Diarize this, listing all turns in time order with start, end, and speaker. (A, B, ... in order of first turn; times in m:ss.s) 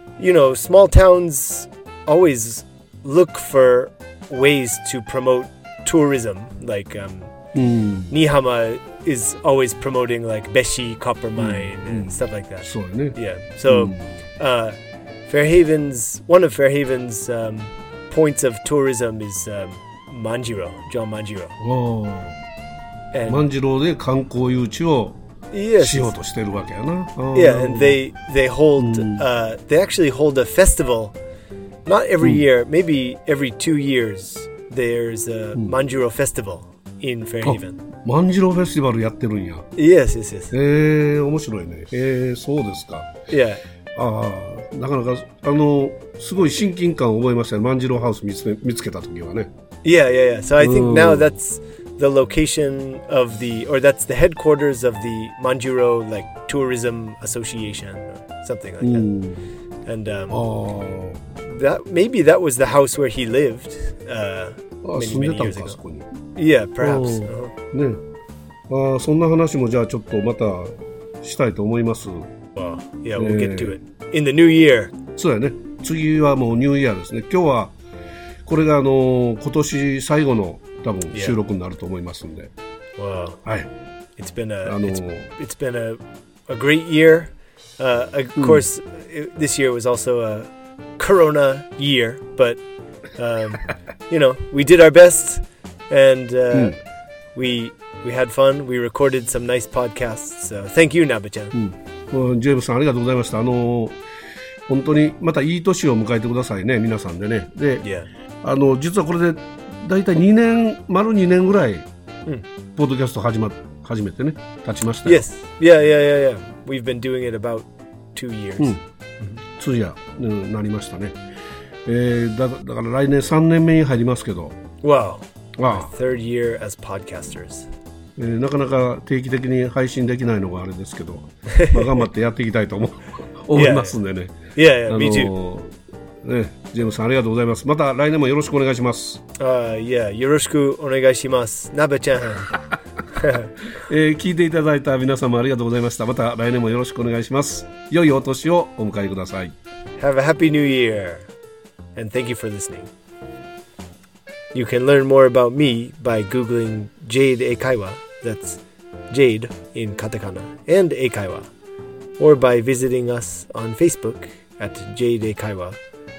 0:00.2-0:07.3 A
0:07.5-0:08.2 B
0:08.1-0:21.6 A
0:11.4-0:14.1 B
0:21.6-0:22.4 B
0:23.1-0:23.5 A
0:23.3-0:25.2 B
0:25.5-0:26.1 A
0:25.8-0:28.0 B
0:27.3-0:31.1 A
0:28.8-0:29.2 B
0:31.8-0:37.8 A
0:37.4-0:39.6 B
0:39.8-0:40.5 A
0:40.5-0:43.2 B
0:43.3-0:43.6 A
0:43.9-0:49.5 B
0:49.8-0:59.1 A
0:50.6-0:51.3 B
0:58.8-0:59.4 B
0:59.8-1:00.4 A
1:00.3-1:01.2 B
1:01.4-1:05.8 A
1:04.8-1:06.1 B
1:06.3-1:07.5 A
1:06.8-1:08.0 B
1:08.7-1:12.3 B
1:12.6-1:15.0 A
1:13.2-1:13.8 B
1:15.1-1:17.8 B
1:18.4-1:22.5 B
1:23.0-1:23.4 A
1:23.4-1:23.7 B
1:24.2-1:32.6 A
1:24.6-1:25.3 B
1:28.4-1:28.6 B
1:33.2-1:36.8 A
1:37.3-1:41.5 A
1:41.5-1:44.0 B
1:44.7-1:47.8 B
1:47.8-1:48.1 A
1:48.4-1:51.9 B
1:52.8-1:55.2 B
1:55.0-1:59.4 A
1:59.5-2:01.2 B
2:01.8-2:04.6 B
2:04.8-2:07.7 A
2:05.6-2:05.9 B
2:08.2-2:14.4 B
2:11.5-2:12.0 A
2:13.5-2:14.0 A
2:14.5-2:15.3 A
2:14.9-2:19.2 B
2:19.4-2:22.6 A
2:23.1-2:23.5 A
2:23.7-2:29.5 B
2:30.0-2:31.3 A
2:32.0-2:32.9 A
2:34.5-2:38.6 A
2:39.1-2:41.5 A
2:42.2-2:45.8 A